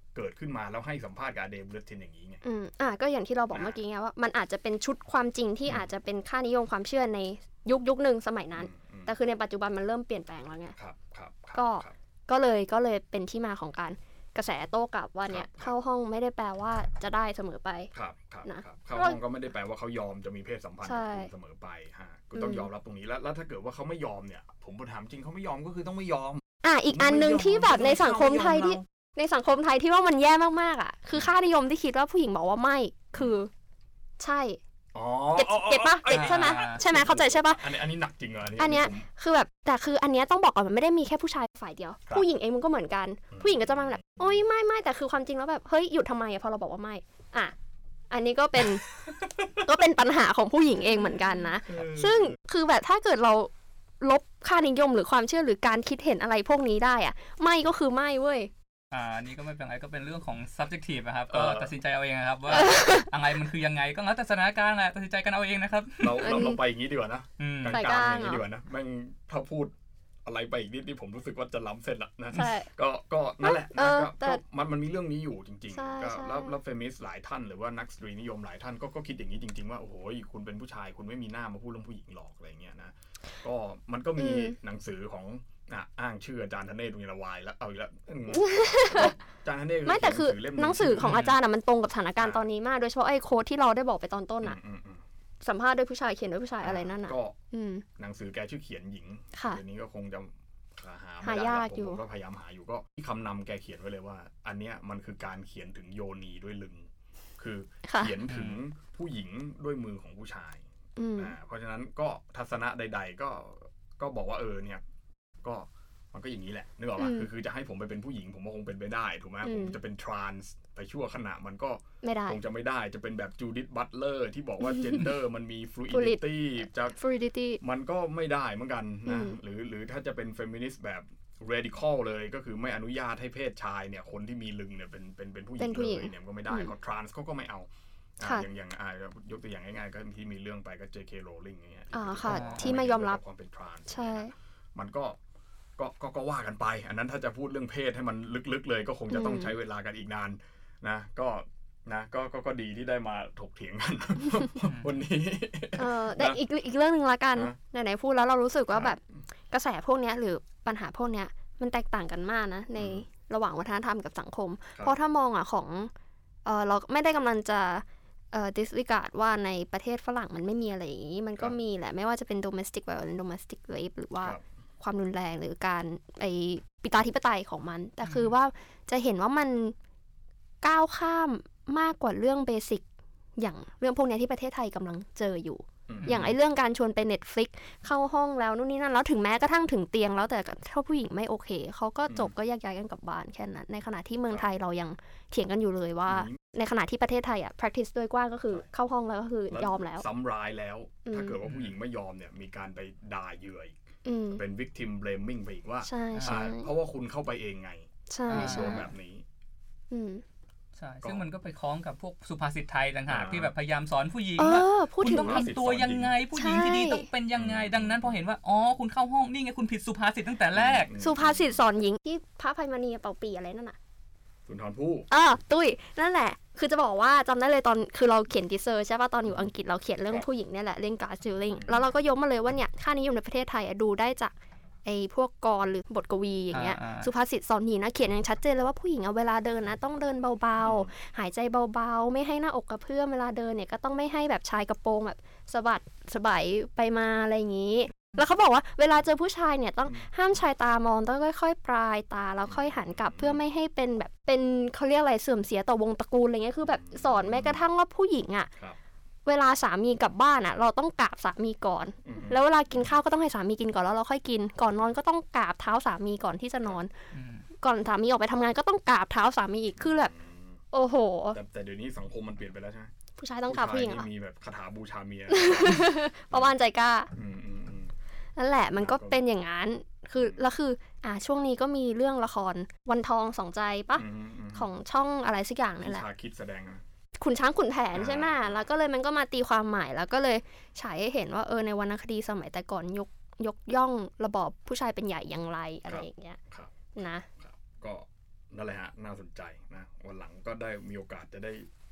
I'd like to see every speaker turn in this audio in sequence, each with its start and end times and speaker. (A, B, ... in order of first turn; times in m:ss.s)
0:00.1-0:02.4 A
0:02.4-0:10.7 B
0:03.5-0:03.8 A
0:08.6-0:09.1 A
0:10.8-0:11.9 A
0:11.5-0:17.9 B
0:15.3-0:15.7 A
0:17.9-0:28.8 A
0:18.4-0:19.2 B
0:20.8-0:21.3 B
0:22.3-0:22.7 B
0:26.6-0:33.5 B
0:34.2-0:34.6 B
0:34.9-0:39.0 A
0:35.4-0:37.7 B
0:36.1-0:36.8 C
0:38.6-0:47.5 B
0:43.3-0:44.4 A
0:48.1-0:48.8 B
0:49.6-0:58.5 B
0:51.0-0:52.4 A
0:58.9-1:06.5 C
1:01.3-1:01.7 A
1:02.5-1:03.1 B
1:06.0-1:09.7 A
1:06.2-1:06.6 B
1:07.4-1:07.8 C
1:07.7-1:08.4 B
1:10.2-1:31.2 A
1:12.3-1:12.7 B
1:13.4-1:14.4 B
1:15.7-1:16.6 B
1:24.2-1:24.6 B
1:28.3-1:29.2 B
1:29.8-1:34.6 B
1:31.0-1:31.4 C
1:32.2-1:32.4 A
1:34.4-1:35.0 A
1:35.4-1:37.8 B
1:36.6-1:37.4 A
1:38.0-1:50.6 A
1:39.3-1:39.6 B
1:41.2-1:42.0 B
1:47.8-1:48.1 B
1:48.3-1:48.6 C
1:51.0-1:51.3 B
1:51.2-1:54.8 A
1:55.4-2:07.0 A
1:57.0-1:57.3 B
1:59.4-1:59.8 B
2:02.0-2:02.4 B
2:04.6-2:05.1 B
2:05.9-2:07.6 B
2:07.6-2:25.2 A
2:09.0-2:09.4 B
2:15.6-2:16.7 B
2:21.9-2:23.2 B
2:22.2-2:22.8 C
2:23.9-2:24.3 B
2:25.8-2:36.4 A
2:29.1-2:29.5 B
2:35.8-2:39.0 B
2:38.7-2:39.0 A
2:39.5-2:45.9 B
2:42.8-2:43.0 A
2:46.4-2:59.7 B
2:58.0-2:58.3 C
3:00.6-3:02.8 B
3:03.4-3:20.0 B
3:05.9-3:06.3 A
3:06.0-3:06.3 C
3:12.1-3:12.3 A
3:16.1-3:16.4 A
3:19.5-3:23.7 A
3:21.0-3:21.4 B
3:21.4-3:21.7 C
3:24.0-3:24.4 B
3:24.3-3:29.2 A
3:25.8-3:26.7 B
3:26.1-3:26.4 C
3:28.1-3:28.9 B
3:28.3-3:28.9 C
3:29.9-3:30.2 B
3:30.8-3:40.9 C
3:33.1-3:33.5 A
3:34.4-3:35.5 B
3:35.0-3:36.1 A
3:36.3-3:37.1 B
3:37.4-3:38.2 A
3:40.5-3:41.6 A
3:41.0-3:43.8 B
3:44.5-3:45.1 A
3:45.1-3:54.3 B
3:51.6-3:51.8 A
3:54.8-4:18.5 B
3:56.5-3:57.1 C
4:00.6-4:00.9 A
4:12.4-4:13.4 A
4:16.6-4:17.6 A
4:19.2-4:26.9 B
4:22.0-4:22.9 A
4:27.1-4:27.4 C
4:27.6-4:30.1 B
4:29.8-4:30.6 A
4:30.7-4:31.4 B
4:31.3-4:32.9 A
4:33.2-4:34.1 B
4:33.5-4:36.5 A
4:35.3-4:37.1 B
4:37.1-4:37.9 A
4:38.4-4:46.0 B
4:38.8-4:39.2 A
4:40.2-4:40.4 A
4:44.0-4:44.7 A
4:45.8-4:46.8 A
4:47.2-4:56.4 B
4:47.9-4:48.6 A
4:55.9-4:56.8 A
4:56.9-4:57.2 B
4:57.4-5:01.7 A